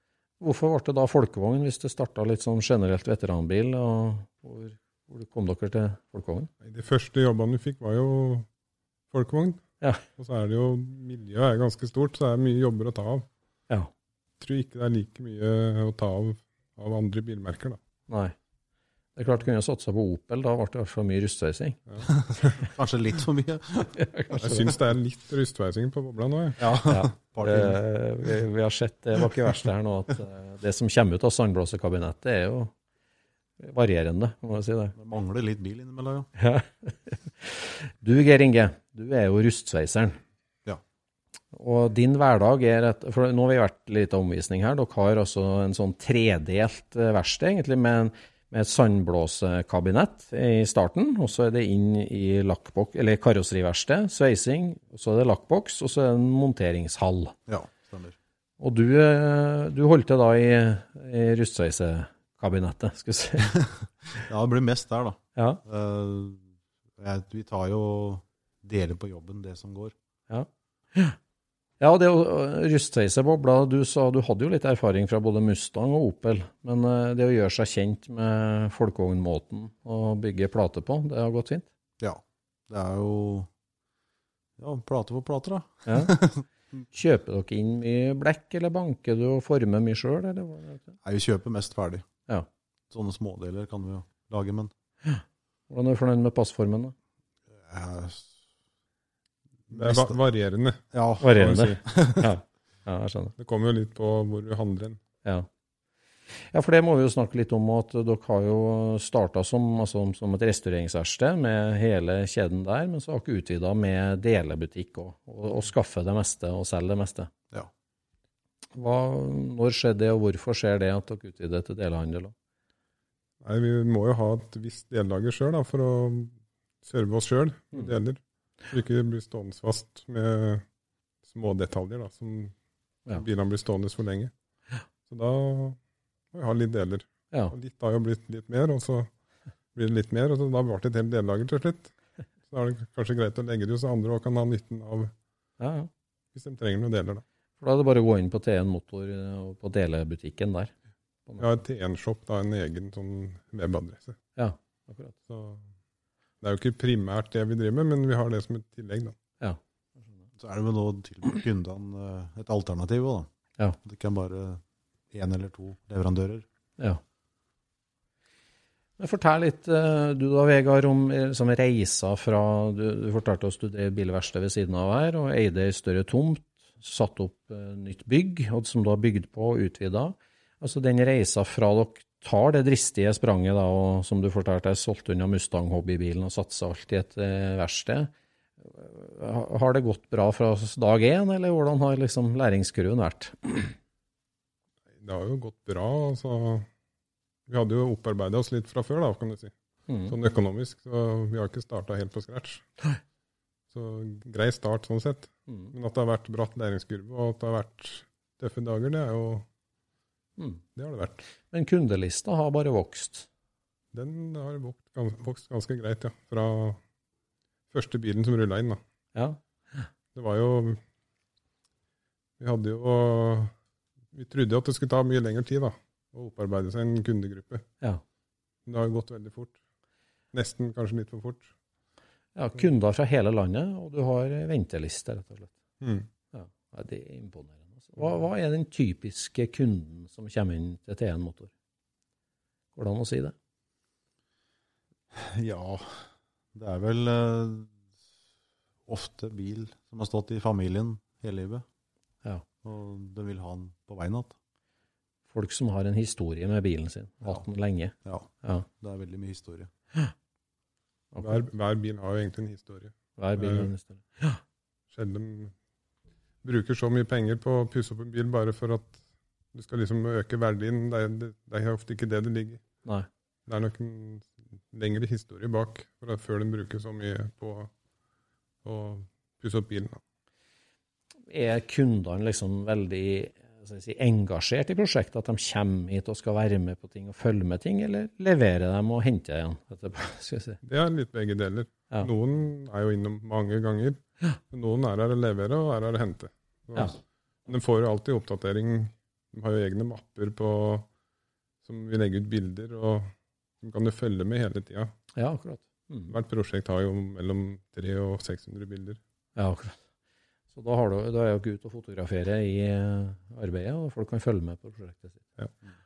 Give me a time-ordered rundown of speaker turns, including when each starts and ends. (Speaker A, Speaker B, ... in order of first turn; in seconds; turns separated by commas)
Speaker A: 0.4-6.5, Speaker B: 6.6-8.4, Speaker B: 9.1-13.2, Speaker B: 14.4-17.8, Speaker A: 18.1-18.3, Speaker A: 19.1-21.8, Speaker C: 22.1-24.7, Speaker A: 24.0-24.7, Speaker B: 24.4-26.6, Speaker C: 26.6-27.8, Speaker A: 26.9-32.7, Speaker A: 33.6-34.9, Speaker C: 34.9-36.3, Speaker A: 36.4-40.2, Speaker A: 41.5-57.4, Speaker C: 57.5-58.2, Speaker A: 58.6-63.5, Speaker C: 64.2-69.9, Speaker A: 65.3-65.6, Speaker A: 70.3-71.2, Speaker A: 71.8-81.7, Speaker C: 82.0-83.5, Speaker C: 84.6-86.4, Speaker A: 85.8-86.2, Speaker A: 86.9-90.9, Speaker C: 91.0-92.1, Speaker C: 92.9-94.7, Speaker A: 95.0-96.9, Speaker C: 97.5-98.3, Speaker C: 99.7-100.2, Speaker B: 99.7-101.8, Speaker C: 100.9-102.3, Speaker A: 101.2-103.3, Speaker B: 103.4-105.0, Speaker A: 106.5-117.3, Speaker A: 118.8-122.3, Speaker B: 123.4-130.6, Speaker B: 131.2-132.5, Speaker B: 133.1-134.3, Speaker B: 135.1-135.8, Speaker B: 136.3-139.1, Speaker B: 139.7-141.9, Speaker B: 142.5-145.1, Speaker A: 145.6-145.9, Speaker B: 146.3-147.2, Speaker A: 147.6-150.7, Speaker B: 151.4-154.2, Speaker A: 154.3-155.1, Speaker B: 155.3-155.6, Speaker B: 156.4-159.2, Speaker C: 160.4-163.3, Speaker C: 163.8-166.4, Speaker A: 169.0-188.1, Speaker A: 188.6-193.7, Speaker B: 195.0-196.7, Speaker B: 197.5-199.5, Speaker A: 199.9-200.2, Speaker B: 200.1-202.7, Speaker B: 203.7-209.4, Speaker A: 205.5-205.7, Speaker B: 210.7-211.2, Speaker A: 211.5-213.3, Speaker B: 213.9-216.8, Speaker B: 217.7-218.8, Speaker A: 219.1-219.9, Speaker B: 220.1-220.8, Speaker B: 222.4-223.5, Speaker B: 224.1-227.7, Speaker B: 228.7-229.6, Speaker B: 230.3-231.5, Speaker A: 232.3-235.5, Speaker B: 235.8-236.1, Speaker A: 236.3-241.5, Speaker A: 242.8-243.3, Speaker C: 245.1-247.7, Speaker C: 248.9-251.6, Speaker C: 252.6-254.3, Speaker A: 255.3-258.6, Speaker C: 258.0-259.7, Speaker A: 261.1-261.4, Speaker B: 261.2-263.7, Speaker A: 263.2-264.4, Speaker B: 264.9-265.5, Speaker B: 266.4-269.0, Speaker B: 269.5-272.6, Speaker B: 273.5-277.7, Speaker B: 278.6-280.0, Speaker A: 281.3-290.6, Speaker B: 290.6-300.9, Speaker B: 301.6-304.9, Speaker A: 305.1-306.1, Speaker B: 306.1-309.0, Speaker A: 309.4-309.8, Speaker A: 310.5-315.2